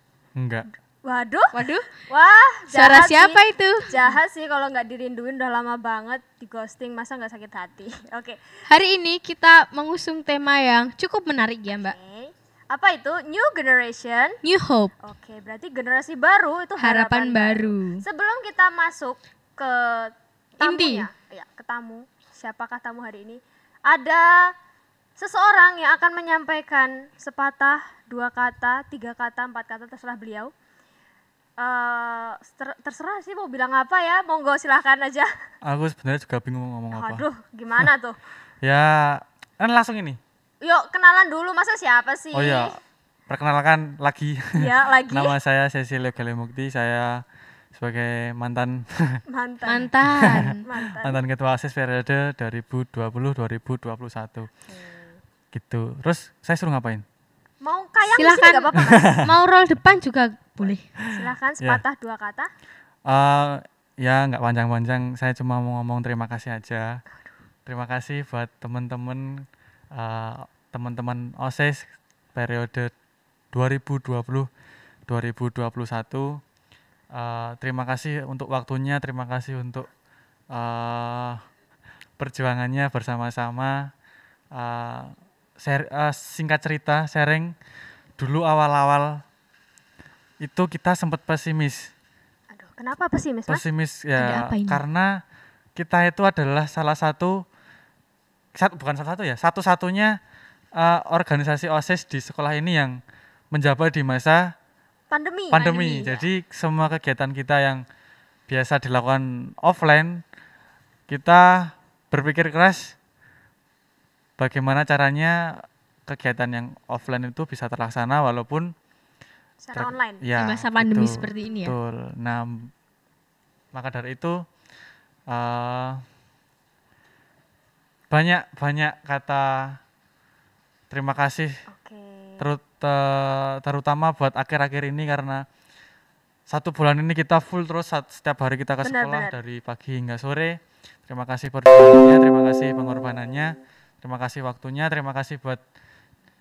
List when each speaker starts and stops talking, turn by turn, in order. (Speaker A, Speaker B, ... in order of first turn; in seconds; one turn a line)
Speaker A: 0.3-0.7
Speaker B: 1.0-1.5
Speaker C: 1.5-1.9
Speaker B: 2.0-8.4
Speaker C: 2.7-3.9
Speaker C: 8.7-11.9
Speaker B: 11.7-14.4
Speaker C: 14.4-14.9
Speaker B: 15.0-24.5
Speaker C: 16.8-18.0
Speaker C: 20.6-21.1
Speaker B: 25.2-30.5
Speaker B: 31.6-35.3
Speaker A: 35.6-37.2
Speaker B: 36.9-38.2
Speaker A: 38.6-40.2
Speaker B: 40.6-42.8
Speaker A: 42.3-49.2
Speaker B: 44.6-45.3
Speaker B: 49.3-51.2
Speaker C: 49.6-50.6
Speaker A: 50.4-54.5
Speaker B: 54.7-55.2
Speaker A: 55.5-57.0
Speaker B: 57.6-59.2
Speaker C: 58.1-58.7
Speaker A: 58.7-59.2
Speaker C: 59.2-61.0
Speaker B: 61.1-62.5
Speaker A: 63.1-67.0
Speaker A: 67.7-72.9
Speaker A: 73.5-74.5
Speaker A: 75.1-76.4
Speaker A: 77.1-79.9
Speaker A: 80.5-81.4
Speaker A: 82.2-83.9
Speaker A: 84.5-87.5
Speaker A: 88.2-89.2
Speaker A: 90.4-91.9
Speaker B: 92.5-93.6
Speaker A: 93.5-95.2
Speaker C: 94.2-94.8
Speaker A: 95.7-97.4
Speaker A: 98.5-100.2
Speaker A: 100.7-103.0
Speaker A: 103.5-104.5
Speaker B: 105.1-106.2
Speaker A: 105.5-107.8
Speaker C: 105.6-106.1
Speaker A: 108.5-110.2
Speaker A: 111.1-113.0
Speaker A: 114.4-118.7
Speaker B: 119.6-120.2
Speaker A: 119.7-122.7
Speaker C: 120.3-121.7
Speaker B: 121.2-121.5
Speaker A: 123.7-124.4
Speaker A: 125.3-126.0
Speaker A: 128.1-129.8
Speaker A: 130.9-131.6
Speaker B: 131.7-132.4
Speaker A: 132.4-135.4
Speaker A: 136.5-145.6
Speaker B: 138.8-139.3